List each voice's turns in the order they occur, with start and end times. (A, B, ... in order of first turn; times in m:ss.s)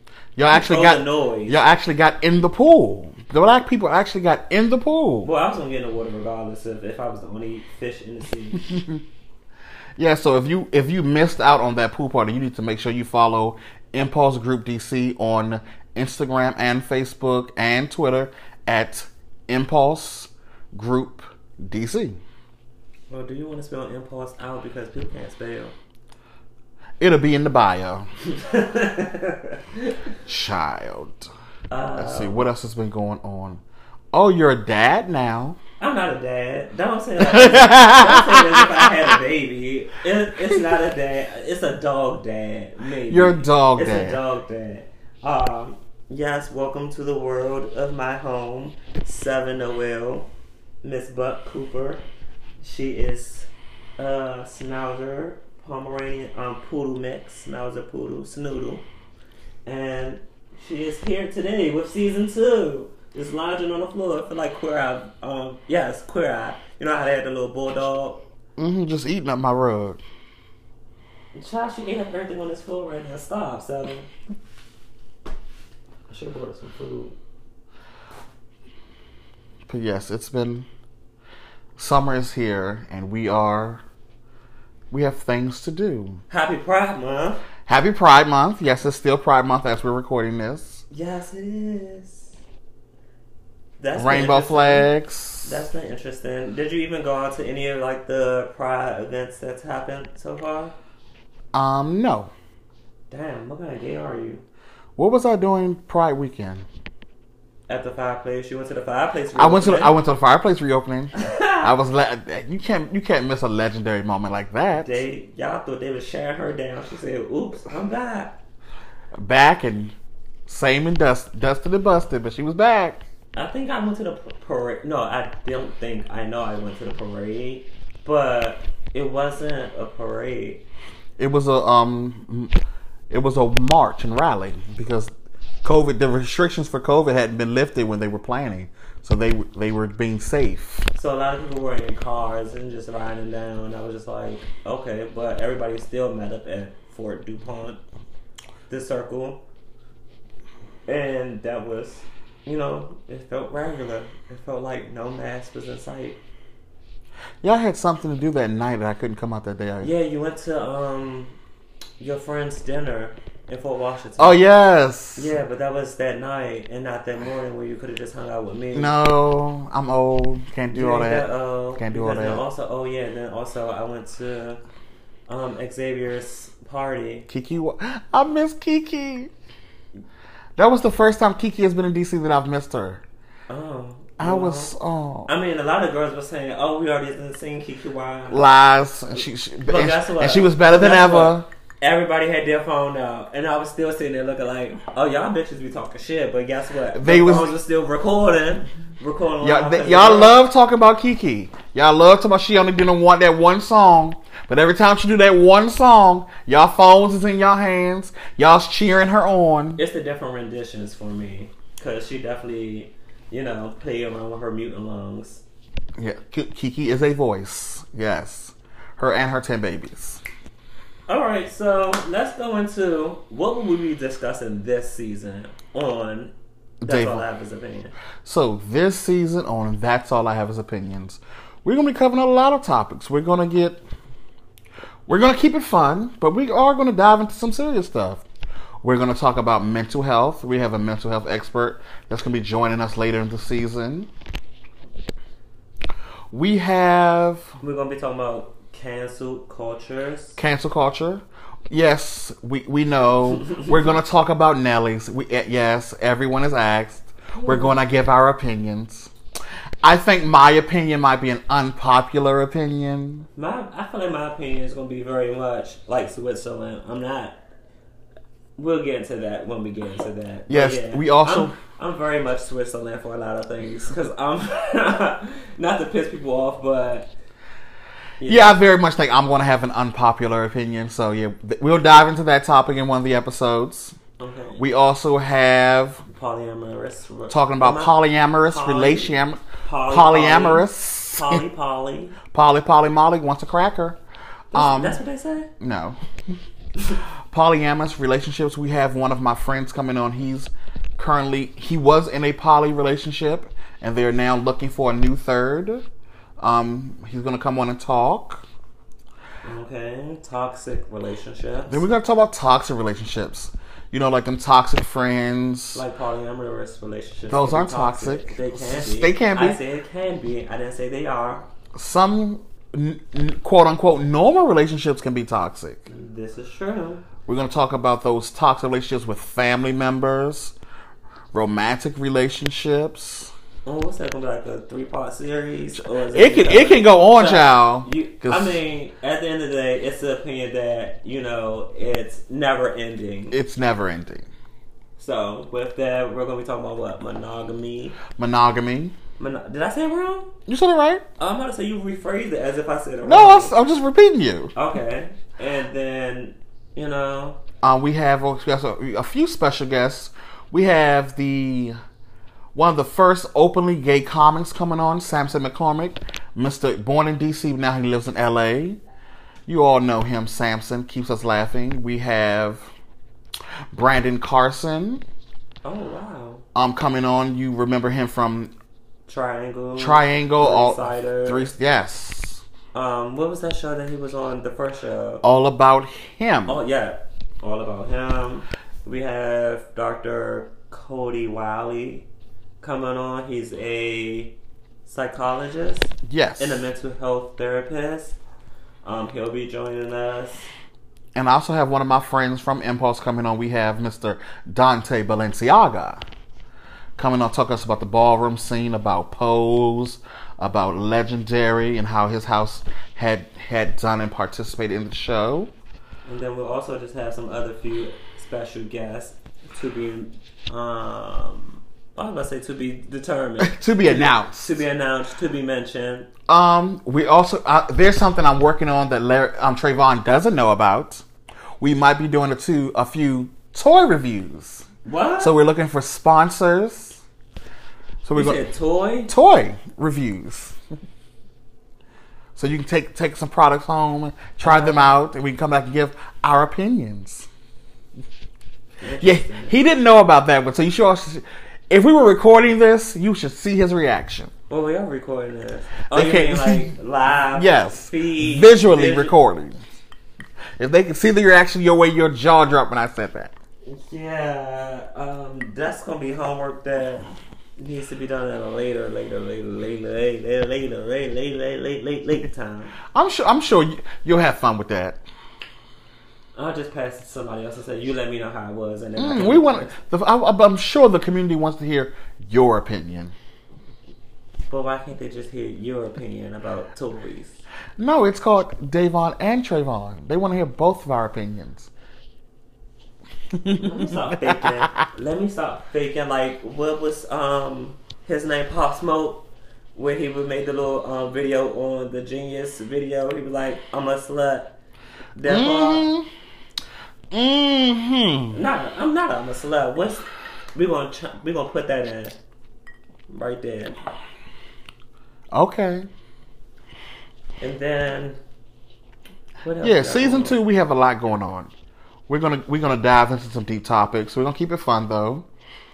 0:00.4-0:05.3 A
0:00.5-0:01.6 B
0:05.2-0:08.6 B
0:08.6-0:09.0 A
0:10.0-0:22.2 A
0:23.1-0:25.7 B
0:27.0-0:28.1 A
0:28.2-0:30.0 B
0:30.2-0:31.3 A
0:31.7-0:32.4 B
0:32.0-0:33.6 A
0:34.1-0:35.6 A
0:35.8-0:50.3 B
0:37.2-0:38.9 A
0:43.1-0:44.2 A
0:50.8-0:52.0 B
0:52.6-0:58.8 B
0:59.6-1:08.2 B
1:08.6-1:10.0 A
1:11.3-1:14.1 B
1:16.1-1:17.2 B
1:19.7-1:20.7 A
1:21.8-1:23.8 A
1:24.9-1:26.2 A
1:26.3-1:27.4 B
1:27.7-1:30.8 A
1:30.9-1:32.3 B
1:33.8-1:34.9 B
1:34.0-1:35.6 A
1:35.4-1:40.7 B
1:41.5-1:42.3 A
1:43.1-1:44.4 B
1:45.0-1:46.6 A
1:47.7-1:49.9 B
1:49.4-1:55.0 A
1:51.1-1:51.7 B
1:54.7-1:58.4 B
1:59.2-1:59.9 A
2:00.5-2:03.0 A
2:03.3-2:10.6 B
2:11.2-2:12.5 A
2:13.1-2:15.1 A
2:15.6-2:20.9 A
2:20.9-2:27.8 B
2:28.7-2:29.4 B
2:30.9-2:36.2 B
2:37.4-2:39.9 A
2:39.8-2:41.4 B
2:42.0-2:44.4 B
2:44.2-2:45.3 A
2:45.2-2:49.0 B
2:48.7-2:52.4 A
2:50.7-2:54.6 B
2:55.3-2:57.3 B
2:57.3-2:59.3 A
3:00.6-3:03.0 A
3:03.5-3:04.7 B
3:04.2-3:05.3 A
3:05.3-3:08.5 B
3:08.3-3:11.5 A
3:09.1-3:20.4 B
3:16.9-3:17.5 A
3:19.4-3:29.8 A
3:29.8-3:35.4 B
3:36.0-3:40.2 A
3:41.1-3:46.3 B
3:46.8-3:47.2 A
3:46.8-3:47.9 B
3:48.2-3:53.8 A
3:55.1-3:58.2 A
3:58.8-4:04.1 A
4:06.3-4:07.5 A
4:07.6-4:10.4 B
4:10.4-4:19.1 A
4:17.3-4:17.8 B
4:19.8-4:23.3 A
4:23.4-4:27.4 B
4:28.6-4:37.1 B
4:30.5-4:31.5 A
4:38.2-4:38.6 B
4:38.2-4:44.0 A
4:44.2-4:44.6 B
4:44.6-4:46.0 A
4:46.1-4:52.2 B
4:47.3-4:51.4 A
4:52.3-4:54.0 A
4:54.5-4:55.0 A
4:54.5-4:55.5 B
4:55.6-4:56.0 A
4:57.3-5:05.8 A
5:06.4-5:08.4 A
5:09.4-5:11.8 B
5:11.7-5:15.8 A
5:15.7-5:21.5 B
5:17.3-5:19.6 A
5:21.7-5:25.8 A
5:25.9-5:27.0 B
5:27.2-5:30.5 A
5:31.3-5:33.3 A
5:33.6-5:43.4 B
5:36.1-5:38.6 A
5:43.3-5:44.3 A
5:45.0-5:48.0 B
5:48.2-5:48.9 A
5:49.2-5:50.3 B
5:50.5-5:51.0 A
5:51.2-5:53.5 B
5:53.0-5:54.5 A
5:54.5-5:57.4 B
5:57.6-6:01.8 A
6:02.5-6:08.8 A
6:09.5-6:12.7 A
6:13.7-6:15.0 A
6:15.6-6:16.4 B
6:16.5-6:18.5 A
6:19.1-6:21.5 B
6:19.8-6:22.4 A
6:22.7-6:25.2 B
6:25.2-6:26.6 A
6:26.5-6:32.1 B
6:32.6-6:38.2 B
6:36.0-6:36.6 A
6:38.8-6:40.5 B
6:41.1-6:46.0 A
6:47.0-6:55.5 A
6:56.0-7:06.1 B
7:03.4-7:04.6 A
7:06.3-7:11.0 A
7:11.6-7:14.6 A
7:14.8-7:15.3 B
7:15.2-7:17.0 A
7:18.0-7:18.4 A
7:18.1-7:19.1 B
7:19.1-7:20.6 A
7:22.4-7:27.3 A
7:24.4-7:24.9 B
7:28.8-7:29.5 B
7:29.0-7:34.3 A
7:34.5-7:39.2 B
7:35.9-7:36.7 A
7:37.3-7:39.6 A
7:40.6-7:43.3 A
7:43.6-7:52.8 B
7:52.9-7:55.0 A
7:56.4-7:59.7 B
7:59.0-8:03.1 A
8:04.5-8:07.4 B
8:07.8-8:11.7 A
8:13.3-8:14.7 A
8:13.6-8:24.6 B
8:25.2-8:25.9 B
8:25.2-8:26.1 A
8:27.1-8:28.4 A
8:28.3-8:32.2 B
8:33.1-8:33.8 B
8:35.3-8:35.9 A
8:37.4-8:38.2 B
8:39.4-8:40.4 B
8:39.6-8:41.5 A
8:42.1-8:45.2 A